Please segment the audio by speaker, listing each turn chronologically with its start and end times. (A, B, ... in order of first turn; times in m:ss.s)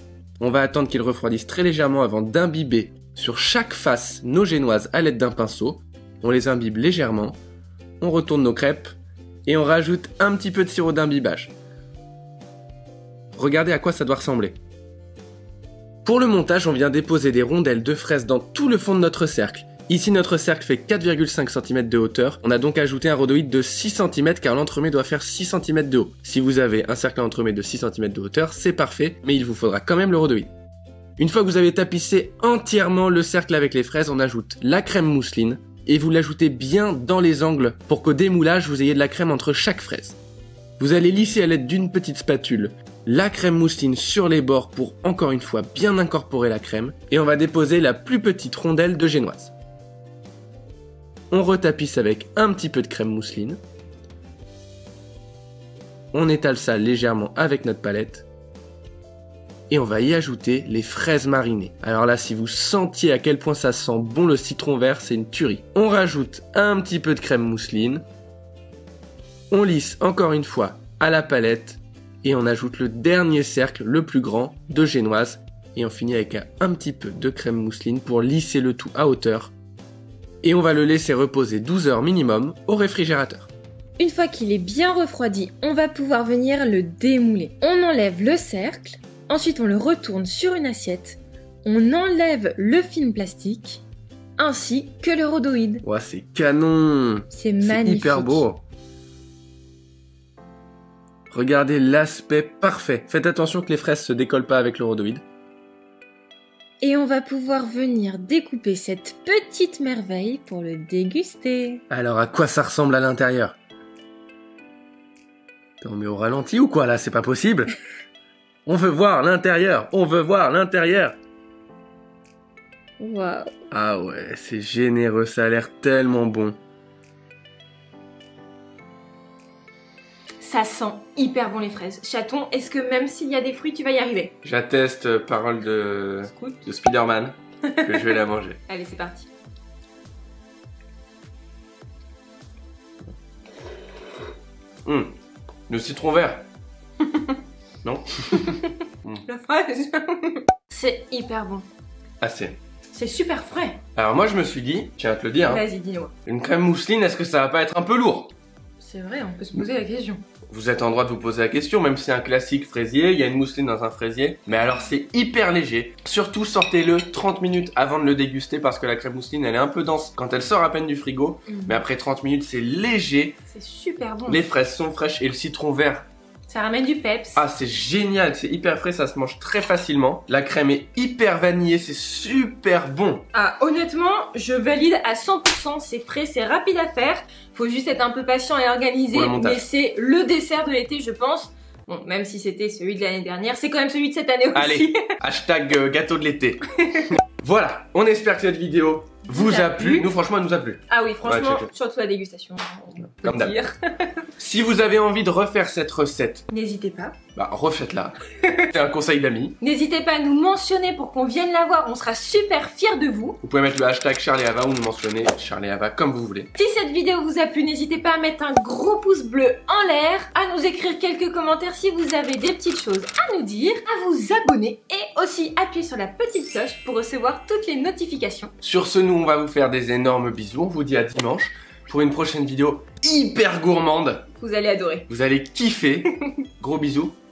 0:00.4-0:07.4 A
0:08.0-0:08.9 A
0:09.5-0:11.5 A
0:13.3-0:14.6 A
0:16.0-0:30.5 A
0:31.2-0:40.2 A
0:40.8-0:49.5 A
0:51.3-0:53.6 A
0:56.1-0:58.3 A
0:59.7-1:08.0 A
1:09.5-1:19.5 A
1:20.4-1:23.5 A
1:24.0-1:33.8 B
1:34.4-1:35.8 B
1:35.8-1:38.6 A
1:37.3-1:38.4 B
1:41.3-1:45.2 A
1:46.8-1:51.8 B
1:51.9-1:53.6 A
1:55.8-1:57.7 A
1:58.7-2:01.2 A
2:03.0-2:03.5 B
2:03.7-2:06.6 A
2:10.4-2:14.4 B
2:14.4-2:18.6 A
2:16.3-2:16.6 B
2:17.7-2:18.2 B
2:18.7-2:19.3 B
2:24.8-2:25.1 A
2:25.7-2:26.4 A
2:27.1-2:27.4 B
2:27.8-2:29.2 A
2:28.3-2:31.7 B
2:32.2-2:32.6 A
2:32.9-2:33.8 B
2:34.0-2:35.6 A
2:35.4-2:36.1 B
2:36.2-2:38.3 A
2:38.8-2:40.2 B
2:40.5-2:53.4 A
2:51.5-2:51.8 B
2:53.5-2:54.4 B
2:54.3-2:56.0 A
2:56.5-2:57.4 B
2:57.4-3:03.3 A
3:03.3-3:15.1 B
3:09.1-3:09.6 A
3:14.5-3:21.7 A
3:16.8-3:17.1 B
3:19.3-3:20.1 B
3:20.9-3:24.3 B
3:23.2-3:23.6 A
3:24.4-3:26.5 A
3:26.5-3:27.2 B
3:27.4-3:29.6 A
3:29.6-3:33.4 B
3:33.4-3:36.5 A
3:36.6-3:48.5 B
3:48.6-3:54.3 A
3:54.4-3:55.1 B
3:55.1-3:57.2 A